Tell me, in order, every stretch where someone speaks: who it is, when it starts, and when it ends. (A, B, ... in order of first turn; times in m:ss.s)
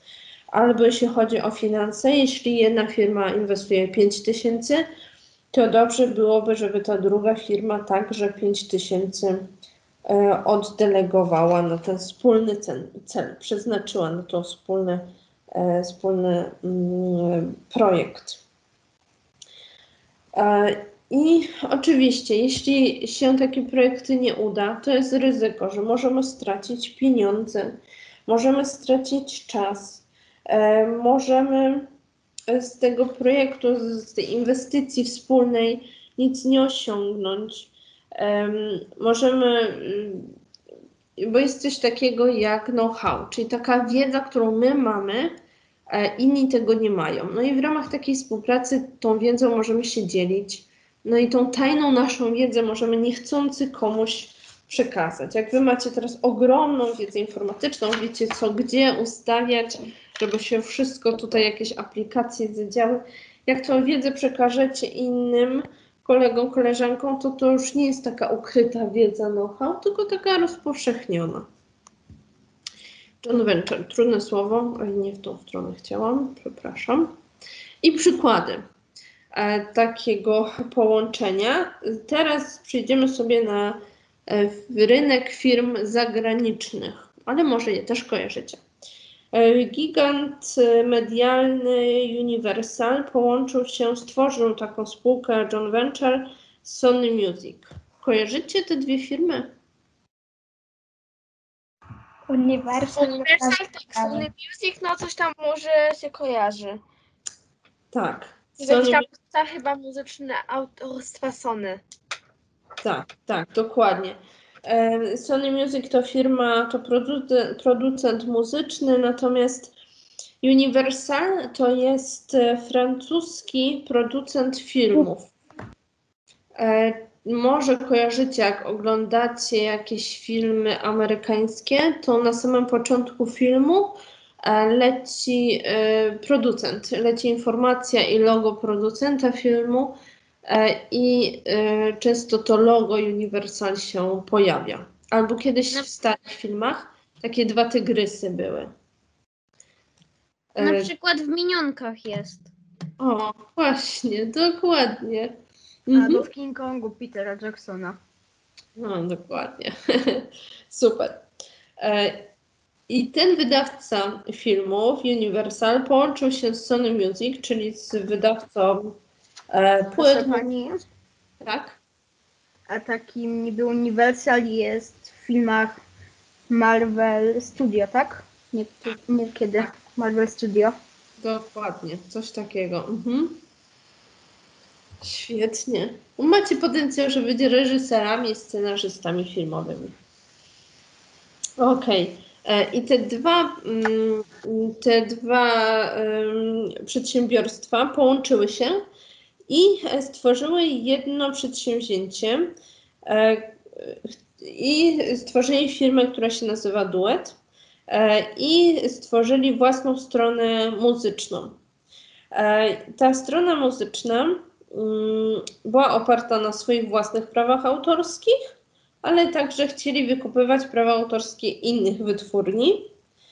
0:00.5-0:04.9 A
0:05.5-0:09.5 A
0:10.1-0:18.4 A
0:20.4-0:31.9 A
0:32.5-0:40.3 A
0:41.2-0:45.4 A
0:45.9-1:11.5 A
1:13.2-1:17.1 A
1:17.8-1:18.6 A
1:19.3-1:28.6 A
1:29.3-1:39.5 A
1:42.3-1:44.3 B
1:43.0-1:46.8 C
1:47.9-1:49.1 A
1:48.6-1:51.8 C
1:52.8-1:59.7 A
2:00.4-2:05.3 A
2:06.6-2:28.7 A
2:30.6-2:30.9 A
2:30.6-2:32.5 D
2:33.0-2:35.4 A
2:35.9-2:36.3 A
2:35.9-2:38.0 E
2:38.8-2:41.3 A
2:41.8-2:42.3 A
2:42.9-2:49.0 A
2:49.5-2:50.5 A
2:50.0-2:50.8 E
2:51.4-2:51.8 A
2:52.7-2:55.8 E
2:56.5-3:00.8 E
3:01.2-3:03.4 A
3:05.0-3:10.0 A
3:11.6-3:18.8 A
3:19.5-3:22.6 A
3:23.1-3:27.4 A
3:27.9-3:31.6 A
3:32.3-3:42.9 A